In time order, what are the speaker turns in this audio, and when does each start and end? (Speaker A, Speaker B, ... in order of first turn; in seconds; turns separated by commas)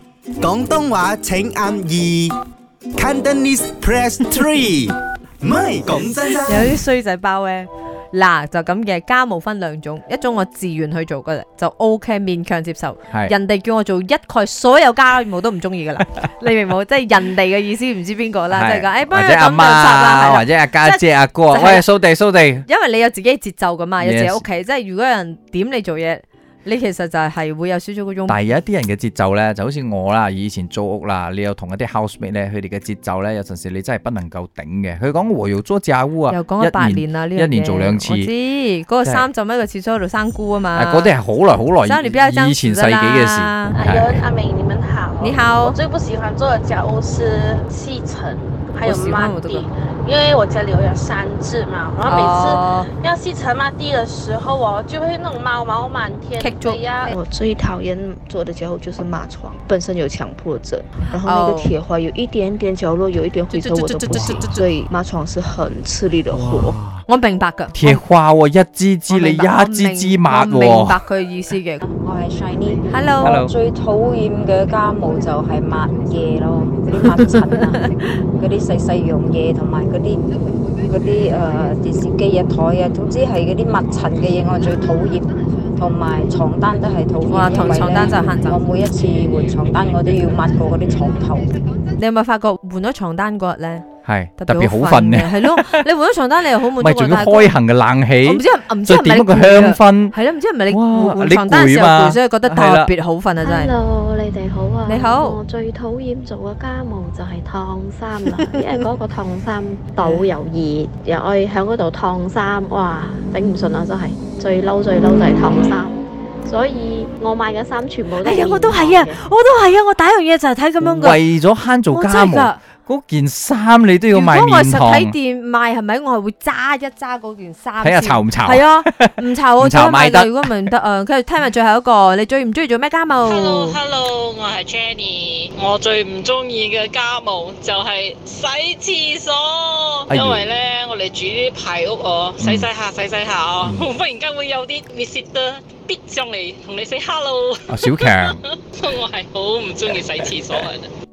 Speaker A: 0.4-2.4, Speaker A: 3.0-6.8, Speaker B: 6.5-21.9, Speaker C: 18.5-22.6, Speaker B: 22.7-28.4, Speaker C: 24.0-24.5, Speaker C: 28.3-38.3, Speaker B: 36.3-41.1, Speaker C: 40.8-44.2, Speaker B: 41.8-43.8, Speaker D: 43.8-57.1, Speaker B: 45.2-45.8, Speaker B: 48.8-49.7, Speaker B: 52.1-52.9, Speaker B: 56.4-56.8, Speaker E: 57.1-66.8, Speaker B: 61.2-61.7, Speaker B: 63.5-64.7, Speaker C: 66.4-67.0, Speaker B: 67.1-68.0, Speaker C: 67.7-71.0, Speaker B: 69.1-71.8, Speaker F: 71.8-77.8, Speaker B: 72.9-73.4, Speaker C: 73.2-73.5, Speaker F: 78.4-80.2, Speaker F: 80.8-91.5, Speaker B: 87.3-88.6, Speaker B: 92.0-97.6, Speaker C: 94.0-95.9, Speaker C: 96.8-100.2, Speaker B: 98.2-103.7, Speaker C: 100.7-102.9, Speaker G: 103.4-119.3, Speaker B: 104.9-105.4, Speaker B: 110.0-110.3, Speaker B: 118.2-121.2, Speaker C: 120.8-125.2, Speaker B: 121.9-122.6, Speaker B: 124.1-133.8, Speaker C: 127.8-130.5, Speaker H: 133.2-150.9, Speaker C: 140.1-140.5, Speaker C: 142.4-142.7, Speaker C: 143.6-143.9, Speaker C: 147.7-148.4